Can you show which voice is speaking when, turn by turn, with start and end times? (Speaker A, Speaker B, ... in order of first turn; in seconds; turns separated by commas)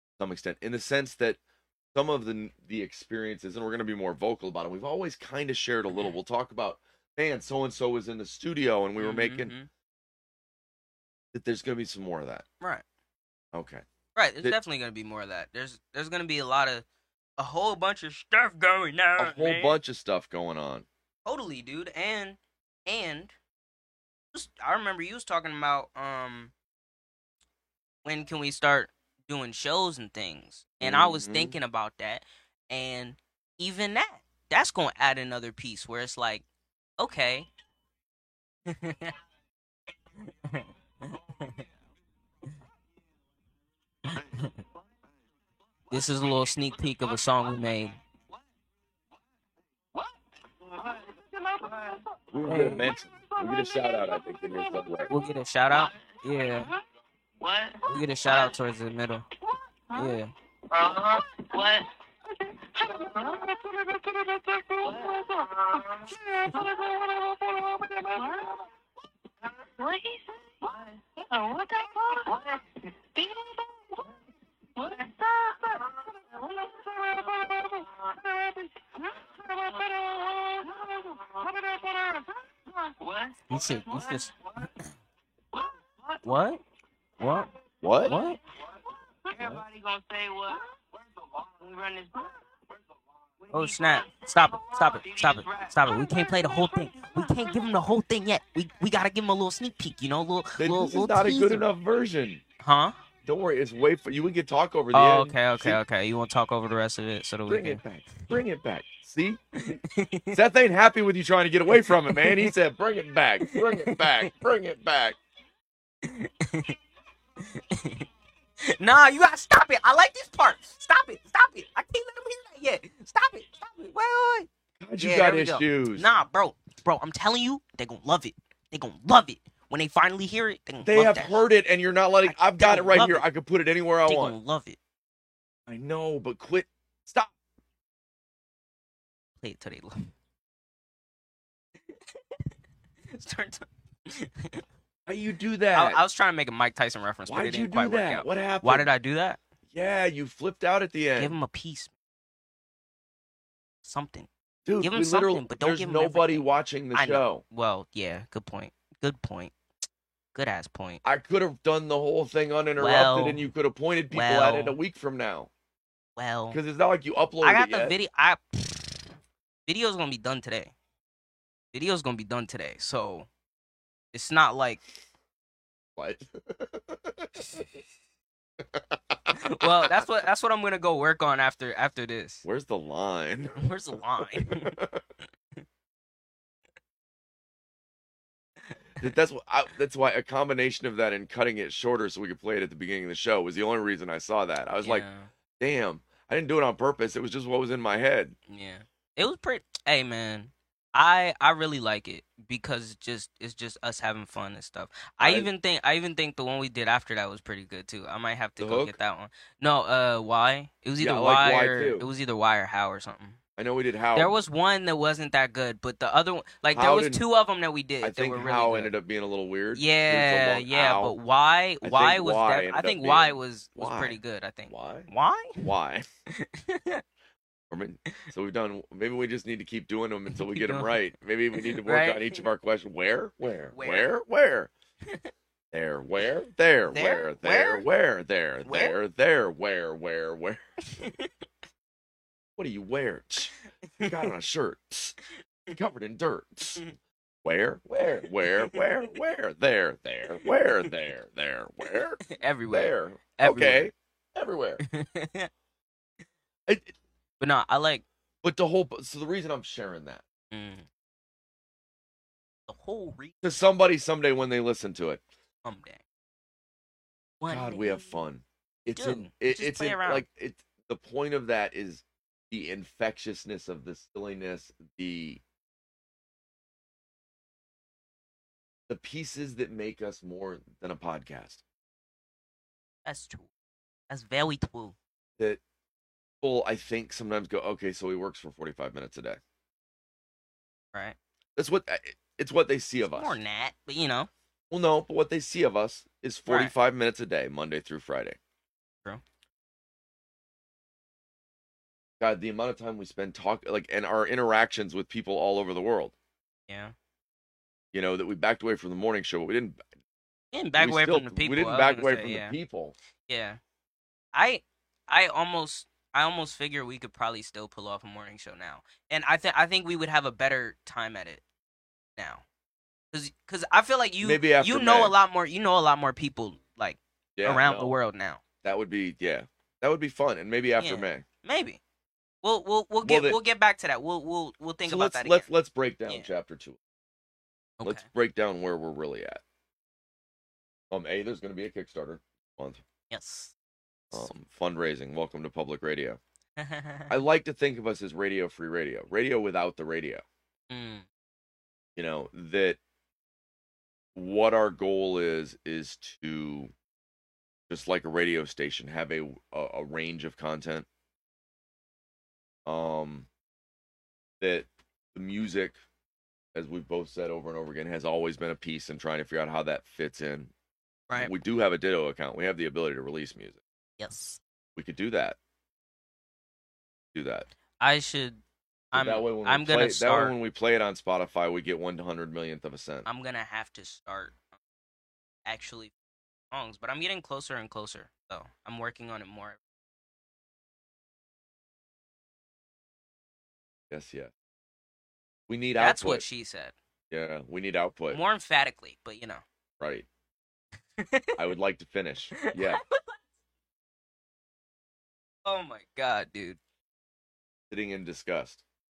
Speaker A: 0.2-1.4, Speaker A: 1.9-9.5, Speaker B: 9.0-9.7, Speaker A: 11.3-12.4, Speaker A: 13.5-13.8, Speaker B: 14.1-16.8, Speaker B: 17.4-19.8, Speaker A: 19.2-20.9, Speaker B: 21.2-23.3, Speaker B: 24.3-26.5, Speaker B: 28.0-36.4, Speaker A: 30.8-31.6, Speaker B: 37.0-37.5, Speaker B: 38.7-39.1, Speaker B: 40.2-41.6, Speaker B: 44.0-44.6, Speaker B: 45.9-48.0, Speaker C: 50.6-55.1, Speaker A: 52.3-55.1, Speaker B: 52.4-52.8, Speaker B: 55.1-56.7, Speaker C: 55.7-56.8, Speaker C: 57.4-58.5, Speaker B: 57.9-59.2, Speaker C: 59.5-60.2, Speaker B: 59.9-60.3, Speaker C: 60.7-68.6, Speaker C: 69.7-74.0, Speaker C: 74.8-84.3, Speaker B: 83.5-84.3, Speaker C: 85.5-86.2, Speaker B: 86.2-86.6, Speaker B: 87.2-87.5, Speaker A: 87.8-88.2, Speaker B: 88.0-88.4, Speaker C: 89.2-92.4, Speaker A: 89.4-89.6, Speaker C: 93.4-97.6, Speaker B: 93.5-101.7, Speaker A: 100.6-102.4, Speaker B: 102.6-102.9, Speaker A: 103.2-105.8, Speaker B: 104.9-107.8, Speaker A: 107.5-109.8, Speaker B: 109.6-110.4, Speaker A: 110.3-115.2, Speaker B: 111.7-112.5, Speaker B: 113.4-114.3, Speaker B: 116.0-116.8, Speaker B: 117.4-118.1, Speaker B: 118.6-131.4, Speaker A: 124.8-126.1, Speaker A: 130.8-134.3, Speaker B: 132.2-133.2, Speaker B: 134.1-134.8, Speaker A: 135.7-137.3, Speaker B: 139.4-140.1, Speaker B: 143.1-144.6, Speaker A: 145.1-146.0, Speaker B: 145.7-149.4, Speaker A: 147.3-148.9, Speaker A: 149.7-151.3, Speaker B: 151.2-151.9, Speaker B: 153.8-154.3, Speaker A: 154.7-157.4, Speaker B: 154.8-159.5, Speaker B: 160.3-161.0, Speaker A: 161.0-165.5, Speaker B: 162.8-163.5, Speaker B: 164.1-164.8, Speaker B: 166.2-166.6, Speaker A: 166.5-167.9, Speaker B: 167.4-169.1, Speaker B: 169.7-170.7, Speaker B: 171.7-173.3, Speaker B: 174.1-174.8, Speaker A: 175.9-177.6, Speaker A: 178.6-180.0, Speaker B: 179.3-182.4, Speaker A: 182.4-183.6, Speaker B: 183.6-184.8, Speaker A: 184.2-185.0, Speaker B: 188.7-189.1, Speaker A: 189.0-195.1, Speaker B: 194.8-195.3, Speaker A: 195.6-198.3, Speaker B: 198.5-213.4, Speaker A: 205.2-205.5, Speaker A: 208.6-209.0, Speaker A: 211.0-212.1, Speaker A: 213.6-214.3, Speaker B: 214.1-218.9, Speaker A: 216.7-217.2, Speaker A: 218.0-221.2, Speaker B: 219.7-225.7, Speaker A: 221.8-226.1, Speaker B: 226.3-227.0, Speaker A: 227.7-234.7, Speaker B: 230.3-230.9, Speaker B: 231.5-232.4, Speaker B: 233.7-234.1, Speaker A: 235.7-240.6, Speaker B: 236.9-237.8, Speaker B: 238.6-238.9, Speaker B: 240.9-241.3, Speaker A: 242.6-245.2, Speaker B: 243.9-244.3, Speaker A: 245.7-246.8, Speaker A: 247.4-254.8, Speaker B: 248.5-248.8, Speaker B: 252.2-253.9, Speaker B: 254.8-255.5, Speaker A: 256.7-256.9, Speaker B: 257.4-258.0, Speaker A: 258.4-260.2, Speaker B: 260.5-260.9, Speaker B: 262.7-263.4, Speaker A: 263.4-265.2, Speaker B: 265.6-266.0, Speaker B: 267.4-268.2, Speaker A: 267.5-275.4, Speaker B: 268.9-270.2, Speaker A: 278.9-281.6, Speaker B: 283.0-283.5, Speaker B: 284.1-284.9, Speaker A: 286.4-289.4, Speaker A: 291.6-293.4, Speaker B: 293.1-294.3, Speaker A: 294.7-298.4, Speaker B: 296.5-296.7, Speaker A: 302.2-306.1, Speaker B: 306.7-306.9, Speaker A: 307.9-309.8, Speaker B: 310.5-312.6, Speaker A: 310.8-312.9, Speaker B: 313.3-313.6, Speaker B: 314.3-321.4, Speaker B: 322.2-322.4, Speaker B: 323.1-328.4, Speaker A: 324.2-325.1, Speaker A: 327.4-327.9, Speaker A: 328.6-331.2, Speaker B: 330.8-331.8, Speaker B: 332.4-335.5, Speaker A: 333.0-333.4, Speaker A: 334.8-336.8, Speaker B: 337.8-338.1, Speaker A: 337.8-339.4, Speaker A: 340.9-342.8, Speaker B: 343.1-343.5, Speaker A: 344.1-346.2, Speaker B: 346.6-347.1, Speaker A: 347.1-350.2, Speaker B: 350.7-351.1, Speaker A: 351.9-352.8, Speaker A: 354.1-356.7, Speaker A: 357.7-360.9, Speaker A: 362.6-363.3, Speaker A: 364.4-365.8, Speaker A: 366.5-370.5, Speaker A: 371.1-373.6, Speaker B: 374.0-374.4, Speaker A: 374.8-375.4, Speaker A: 377.1-377.5, Speaker B: 377.8-378.4, Speaker B: 378.9-380.3, Speaker A: 378.9-383.1, Speaker B: 383.0-384.4, Speaker B: 385.4-385.9, Speaker B: 386.5-389.6, Speaker A: 393.9-394.3, Speaker A: 395.5-396.2, Speaker B: 395.8-396.7, Speaker A: 397.1-398.2, Speaker B: 398.1-399.4, Speaker A: 399.8-400.1, Speaker B: 401.0-401.4, Speaker A: 401.4-402.8, Speaker B: 402.3-403.1, Speaker B: 405.4-406.6, Speaker A: 407.7-408.6